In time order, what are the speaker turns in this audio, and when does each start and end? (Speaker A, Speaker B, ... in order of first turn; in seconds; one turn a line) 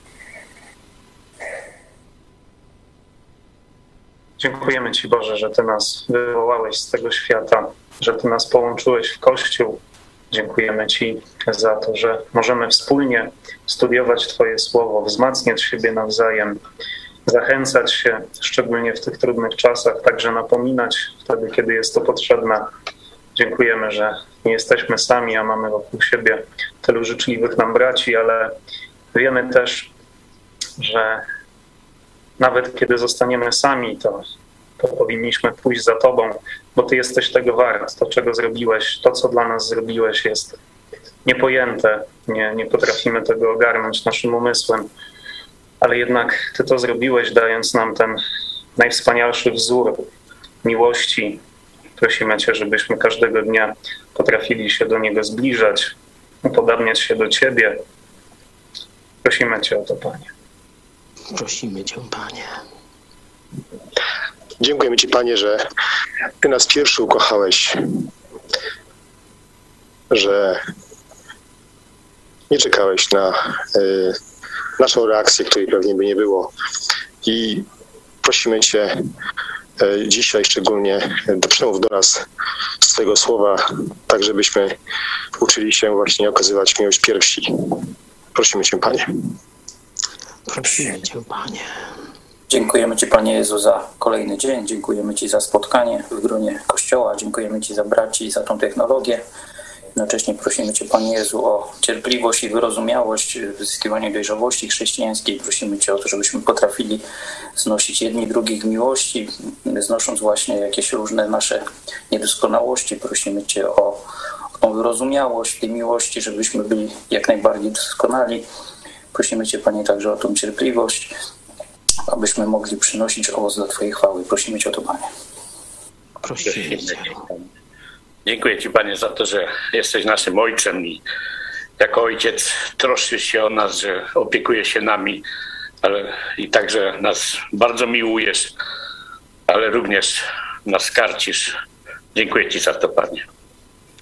Speaker A: 4.4-16.6
Speaker A: 17.2-22.7
Speaker A: 23.4-28.5
Speaker A: 29.1-29.9
Speaker A: 30.8-31.2
Speaker A: 32.4-34.2
Speaker A: 34.8-40.6
Speaker A: 41.2-44.9
Speaker A: 45.8-48.2
Speaker A: 48.8-50.1
Speaker A: 50.6-51.4
Speaker A: 52.0-57.8
Speaker A: 59.2-60.3
Speaker B: 61.3-62.5
Speaker C: 64.6-65.6
Speaker C: 66.4-68.0
Speaker C: 70.1-70.6
Speaker C: 72.5-74.2
Speaker C: 74.8-76.5
Speaker C: 77.2-77.7
Speaker C: 78.2-78.9
Speaker C: 79.8-82.2
Speaker C: 82.8-84.8
Speaker C: 85.4-89.1
Speaker B: 90.5-91.7
Speaker D: 92.5-99.2
Speaker D: 99.9-107.0
Speaker D: 107.5-114.0
Speaker D: 114.6-118.5
Speaker D: 119.1-121.1
Speaker D: 122.1-125.1
Speaker B: 126.2-127.2
Speaker E: 128.2-131.0
Speaker E: 131.8-135.2
Speaker E: 135.8-138.5
Speaker E: 139.5-141.5
Speaker E: 142.1-143.2